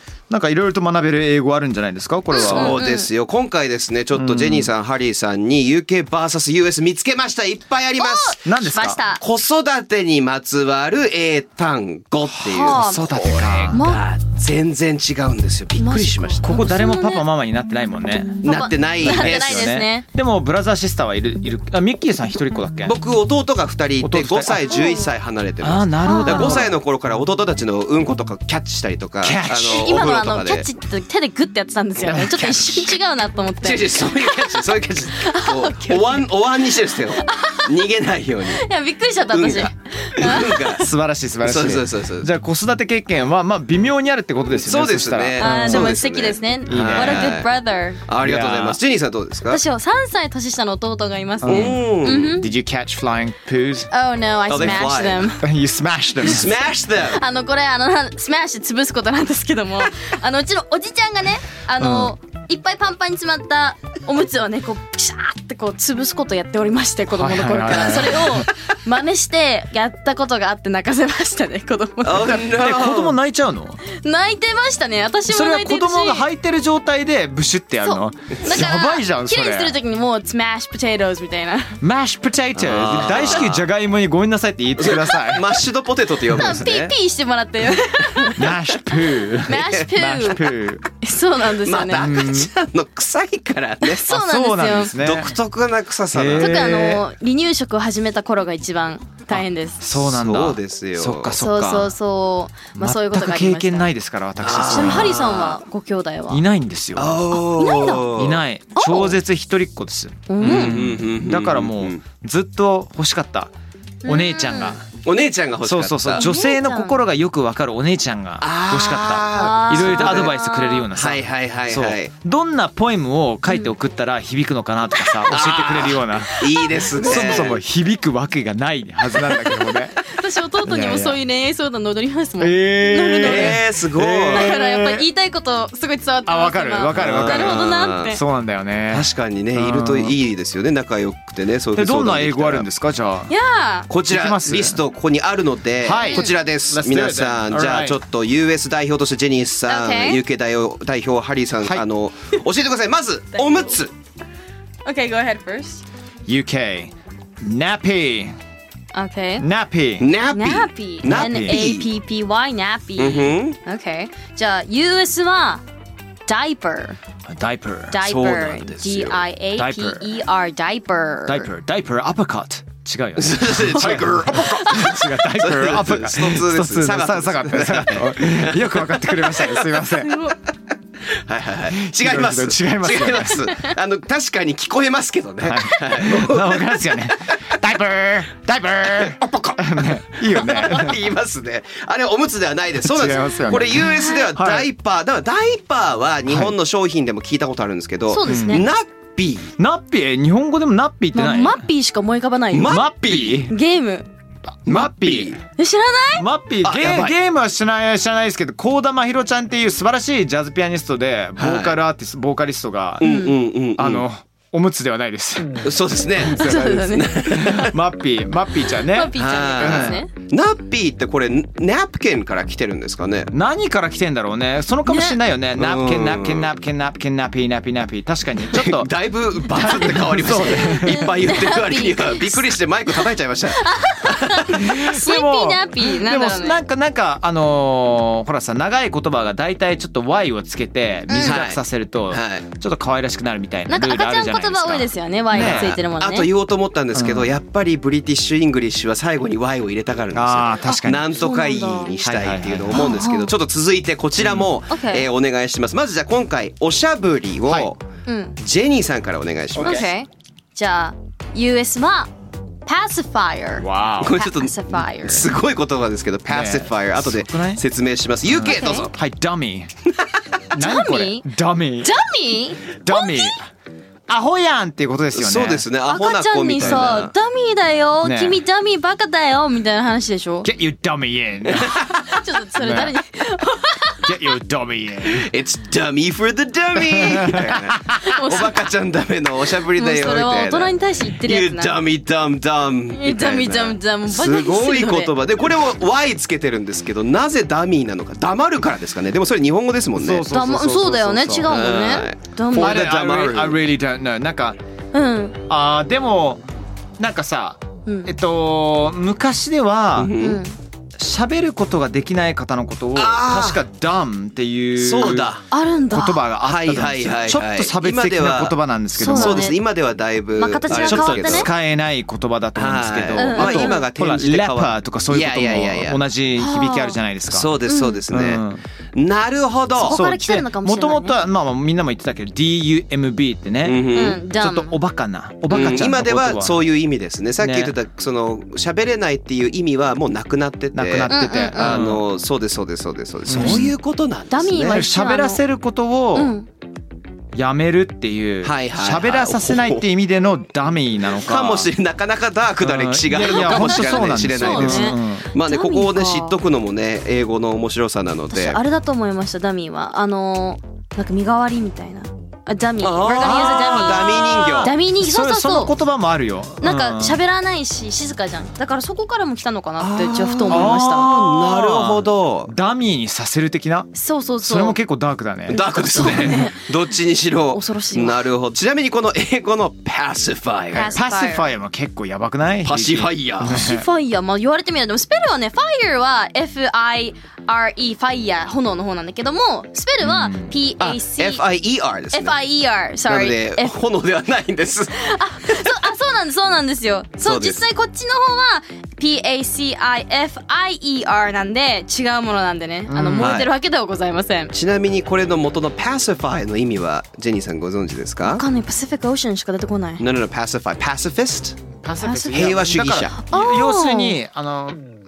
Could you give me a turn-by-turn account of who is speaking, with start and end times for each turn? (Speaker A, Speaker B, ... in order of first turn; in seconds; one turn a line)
Speaker A: 0.3-2.8
Speaker B: 2.3-3.1
Speaker C: 2.5-8.4
Speaker A: 4.1-4.7
Speaker B: 8.0-9.2
Speaker A: 8.4-9.0
Speaker C: 9.2-16.5
Speaker B: 12.4-13.0
Speaker A: 12.5-13.8
Speaker B: 13.7-14.0
Speaker B: 15.8-17.2
Speaker A: 16.4-23.0
Speaker B: 18.3-20.0
Speaker C: 18.4-19.8
Speaker C: 22.9-30.7
Speaker A: 24.0-24.8
Speaker B: 24.7-25.0
Speaker A: 25.6-26.8
Speaker B: 26.0-26.6
Speaker A: 29.2-30.0
Speaker B: 29.7-34.6
Speaker A: 32.0-32.9
Speaker C: 33.6-38.7
Speaker B: 35.2-36.3
Speaker B: 37.2-37.7
Speaker B: 38.6-40.5
Speaker C: 39.3-40.9
Speaker A: 40.7-46.0
Speaker C: 41.4-42.3
Speaker C: 44.5-47.5
Speaker B: 45.4-48.0
Speaker A: 46.7-47.4
Speaker C: 48.1-49.6
Speaker A: 48.2-48.8
Speaker B: 49.5-52.5
Speaker A: 51.4-53.9
Speaker C: 51.4-52.4
Speaker B: 53.9-55.4
Speaker C: 54.5-55.3
Speaker A: 55.4-56.5
Speaker C: 56.2-57.2
Speaker B: 57.1-72.4
Speaker A: 61.8-62.1
Speaker A: 67.1-68.5
Speaker C: 72.0-73.1
Speaker A: 72.2-73.8
Speaker B: 73.9-76.2
Speaker A: 75.3-79.8
Speaker B: 77.8-81.7
Speaker A: 81.8-85.5
Speaker C: 82.6-83.6
Speaker C: 84.8-86.9
Speaker B: 86.3-88.3
Speaker A: 88.4-90.9
Speaker B: 89.5-90.4
Speaker C: 89.5-89.8
Speaker B: 91.0-92.1
Speaker C: 91.6-94.0
Speaker A: 91.9-92.5
Speaker B: 93.8-94.9
Speaker A: 94.1-95.3
Speaker C: 95.0-96.7
Speaker A: 96.1-97.0
Speaker B: 96.4-99.8
Speaker A: 99.3-101.9
Speaker C: 99.9-101.4
Speaker B: 101.4-103.9
Speaker A: 102.8-105.2
Speaker C: 104.4-105.6
Speaker B: 104.5-106.4
Speaker A: 106.3-107.4
Speaker C: 107.0-108.4
Speaker B: 107.6-108.1
Speaker A: 108.1-113.5
Speaker B: 108.8-109.2
Speaker B: 110.3-110.8
Speaker C: 110.4-112.0
Speaker B: 114.0-114.8
Speaker A: 114.0-115.0
Speaker C: 115.0-116.3
Speaker A: 115.6-130.0
Speaker B: 116.2-116.9
Speaker C: 118.4-120.4
Speaker B: 119.3-120.9
Speaker C: 120.9-122.1
Speaker B: 123.5-123.7
Speaker C: 125.3-127.6
Speaker B: 126.9-127.5
Speaker B: 129.4-133.6
Speaker A: 130.6-131.2
Speaker A: 132.4-135.0
Speaker C: 133.2-134.5
Speaker B: 134.3-138.2
Speaker A: 136.2-140.2
Speaker C: 136.9-138.1
Speaker C: 138.9-142.7
Speaker A: 141.8-143.3
Speaker B: 143.3-143.9
Speaker C: 143.9-153.9
Speaker A: 144.1-144.8
Speaker A: 145.8-148.0
Speaker B: 149.7-150.2
Speaker B: 153.3-153.7
Speaker B: 154.9-155.8
Speaker A: 156.2-158.4
Speaker B: 158.9-159.4
Speaker A: 159.4-160.1
Speaker C: 160.0-161.9
Speaker B: 160.3-165.6
Speaker A: 161.0-161.7
Speaker C: 163.0-163.6
Speaker B: 166.2-167.0
Speaker A: 167.3-168.1
Speaker B: 167.9-171.5
Speaker C: 168.0-169.2
Speaker A: 169.6-170.1
Speaker A: 171.2-180.2
Speaker C: 173.2-179.6
Speaker B: 180.0-180.4
Speaker C: 181.1-186.9
Speaker A: 181.7-183.5
Speaker A: 185.4-191.0
Speaker C: 188.9-199.5
Speaker A: 192.8-194.7
Speaker B: 193.9-194.2
Speaker A: 196.3-196.5
Speaker B: 198.1-198.7
Speaker A: 198.2-198.7
Speaker A: 199.6-201.6
Speaker B: 201.1-204.1
Speaker C: 202.5-203.5
Speaker A: 202.6-203.5
Speaker A: 204.4-205.4
Speaker C: 204.7-205.4
Speaker B: 205.6-206.2
Speaker A: 206.2-213.1
Speaker C: 206.6-207.1
Speaker C: 211.4-211.8
Speaker C: 213.0-214.0
Speaker B: 213.0-213.3
Speaker A: 213.8-220.0
Speaker C: 215.6-217.7
Speaker B: 216.3-217.7
Speaker B: 218.9-220.1
Speaker C: 219.2-223.3
Speaker A: 223.3-228.9
Speaker B: 224.9-225.2
Speaker C: 225.6-226.5
Speaker C: 228.5-234.6
Speaker A: 229.5-231.1
Speaker B: 229.6-233.0
Speaker B: 233.5-236.6
Speaker A: 234.6-245.8
Speaker B: 241.1-241.4
Speaker C: 241.2-241.6
Speaker C: 242.1-242.5
Speaker B: 243.7-246.3
Speaker C: 245.3-257.8
Speaker A: 246.9-247.3
Speaker A: 250.1-251.2
Speaker B: 251.1-252.1
Speaker A: 252.0-252.9
Speaker B: 252.7-253.3
Speaker A: 254.2-254.5
Speaker B: 254.7-255.1
Speaker A: 257.5-257.7
Speaker B: 258.1-258.4
Speaker C: 258.4-259.9
Speaker A: 259.5-259.9
Speaker B: 259.6-262.1
Speaker B: 262.6-265.3
Speaker A: 263.6-264.2
Speaker C: 264.0-268.9
Speaker A: 266.3-267.6
Speaker A: 268.2-269.7
Speaker B: 268.4-268.9
Speaker A: 270.5-271.9
Speaker B: 270.6-271.3
Speaker B: 271.8-273.4
Speaker A: 272.7-273.5
Speaker A: 274.1-275.7
Speaker C: 275.1-277.1
Speaker B: 275.9-280.5
Speaker A: 276.6-277.1
Speaker A: 278.0-278.4
Speaker A: 280.4-282.0
Speaker C: 281.5-281.8
Speaker B: 282.1-284.1
Speaker A: 282.6-282.9
Speaker A: 284.0-285.3
Speaker C: 285.1-300.3
Speaker A: 286.8-288.4
Speaker B: 288.1-288.7
Speaker B: 289.8-291.8
Speaker B: 292.9-295.1
Speaker A: 300.0-301.5
Speaker B: 300.3-302.9
Speaker C: 301.5-303.6
Speaker A: 302.6-304.6
Speaker B: 304.9-305.4
Speaker A: 305.5-306.4
Speaker A: 307.0-310.1
Speaker B: 307.9-308.1
Speaker C: 310.0-310.4
Speaker B: 310.2-310.6
Speaker A: 311.0-319.5
Speaker C: 312.9-313.6
Speaker C: 314.8-315.4
Speaker B: 315.5-316.2
Speaker C: 316.4-321.5
Speaker B: 319.0-319.6
Speaker B: 320.4-321.5
Speaker A: 320.7-327.5
Speaker C: 322.6-326.0
Speaker B: 323.2-323.8
Speaker B: 326.4-326.9
Speaker C: 327.3-328.4
Speaker B: 327.6-328.0
Speaker A: 328.1-328.6
Speaker C: 328.9-330.0
Speaker A: 329.8-336.6
Speaker B: 329.8-331.2
Speaker C: 333.6-334.2
Speaker B: 333.9-334.8
Speaker C: 335.5-344.6
Speaker A: 337.4-337.7
Speaker A: 340.7-342.0
Speaker B: 341.1-341.8
Speaker A: 343.3-343.7
Speaker B: 343.4-343.6
Speaker B: 344.3-345.4
Speaker A: 344.5-346.4
Speaker B: 346.1-346.5
Speaker A: 347.4-351.7
Speaker C: 348.4-349.9
Speaker C: 351.1-358.6
Speaker A: 352.6-355.3
Speaker B: 353.2-356.4
Speaker B: 358.3-365.7
Speaker C: 362.8-364.7
Speaker A: 363.1-367.2
Speaker B: 366.6-371.1
Speaker C: 369.8-372.5
Speaker A: 370.5-376.4
Speaker B: 373.9-374.8
Speaker C: 375.5-380.9
Speaker B: 375.5-376.6
Speaker B: 377.5-378.2
Speaker B: 380.7-381.4
Speaker A: 380.7-383.9
Speaker C: 382.6-383.6
Speaker B: 383.5-391.4
Speaker A: 390.0-390.6
Speaker C: 390.8-392.4
Speaker B: 392.1-393.7
Speaker C: 393.1-395.8
Speaker B: 395.0-404.5
Speaker C: 397.2-397.6
Speaker A: 402.9-403.5
Speaker C: 403.2-403.5
Speaker C: 404.5-408.4
Speaker B: 408.2-410.0
Speaker C: 410.0-411.6
Speaker A: 411.8-414.9
Speaker B: 412.0-412.4
Speaker C: 412.3-413.1
Speaker B: 413.2-414.2